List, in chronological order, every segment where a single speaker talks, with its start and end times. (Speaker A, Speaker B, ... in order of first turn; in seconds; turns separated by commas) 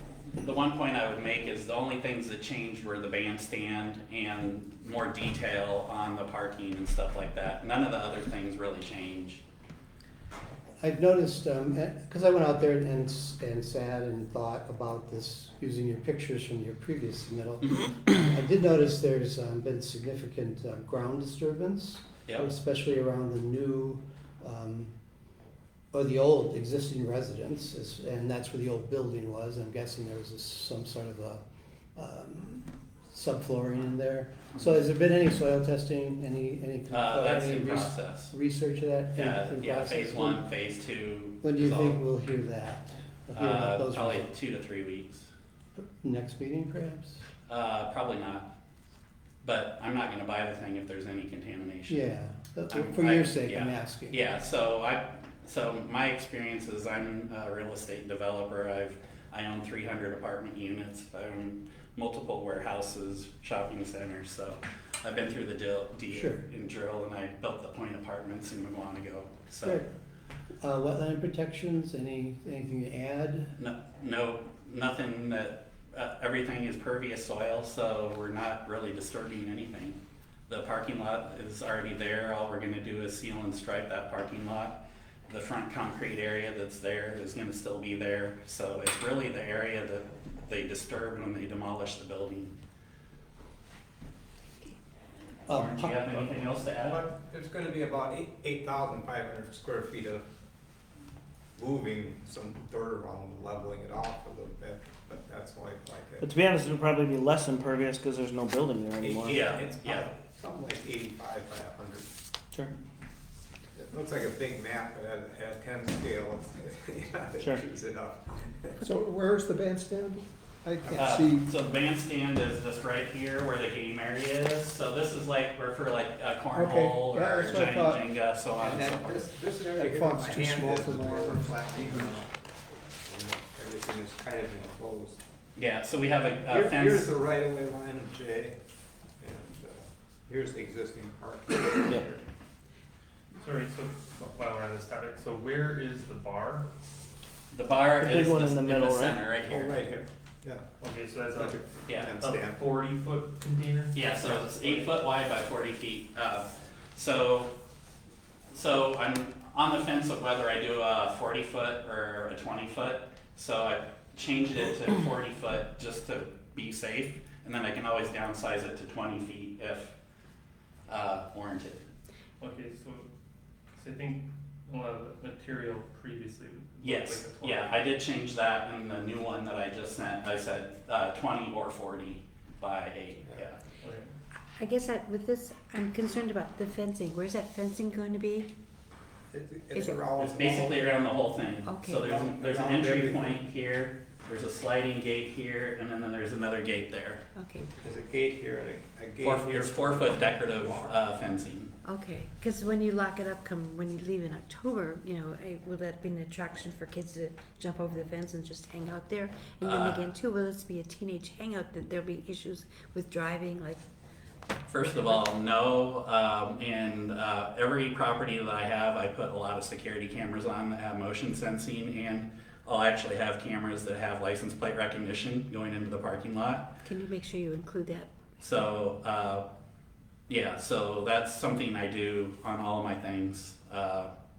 Speaker A: 0.3-9.4, Speaker B: 10.8-24.9, Speaker B: 25.9-31.4, Speaker B: 31.9-40.5, Speaker A: 36.9-38.3, Speaker A: 39.1-42.0, Speaker B: 41.4-44.3, Speaker A: 43.3-45.3, Speaker B: 45.8-47.2, Speaker A: 47.5-48.5, Speaker A: 49.4-52.0, Speaker B: 51.9-54.2, Speaker A: 52.7-69.8, Speaker B: 66.1-66.4, Speaker B: 69.6-69.9, Speaker B: 70.6-73.5, Speaker A: 73.6-92.5, Speaker B: 95.5-96.0, Speaker A: 95.5-97.1, Speaker C: 96.8-100.2, Speaker C: 101.5-106.3, Speaker D: 106.2-109.4, Speaker C: 109.0-112.1, Speaker A: 109.3-110.1, Speaker C: 113.8-118.8, Speaker E: 118.8-120.1, Speaker B: 119.6-119.9, Speaker C: 120.8-121.2, Speaker E: 120.8-121.3, Speaker B: 120.9-121.2, Speaker A: 121.0-129.3, Speaker B: 126.5-128.0, Speaker E: 126.7-127.0, Speaker C: 128.6-132.3, Speaker B: 129.8-131.8, Speaker C: 132.9-135.2, Speaker A: 135.6-137.1, Speaker C: 136.4-138.6, Speaker C: 139.2-142.2, Speaker F: 143.4-146.7, Speaker A: 147.5-149.8, Speaker D: 148.0-149.2, Speaker C: 149.5-150.6, Speaker F: 150.8-154.9, Speaker C: 151.3-152.6, Speaker A: 151.9-152.1, Speaker A: 153.9-157.5, Speaker A: 158.5-169.9, Speaker A: 170.9-171.9, Speaker F: 172.4-173.1, Speaker F: 173.8-177.8, Speaker A: 176.8-183.6, Speaker F: 183.8-184.1, Speaker G: 184.6-188.5, Speaker C: 189.3-190.8, Speaker G: 189.7-190.0, Speaker A: 190.2-197.2, Speaker G: 191.6-192.1, Speaker C: 192.0-193.4, Speaker G: 197.3-197.7, Speaker C: 197.8-200.9, Speaker A: 199.2-201.7, Speaker G: 201.8-213.8, Speaker A: 209.6-210.1, Speaker A: 214.7-226.8, Speaker G: 226.8-228.1, Speaker A: 228.4-229.4, Speaker A: 230.3-234.1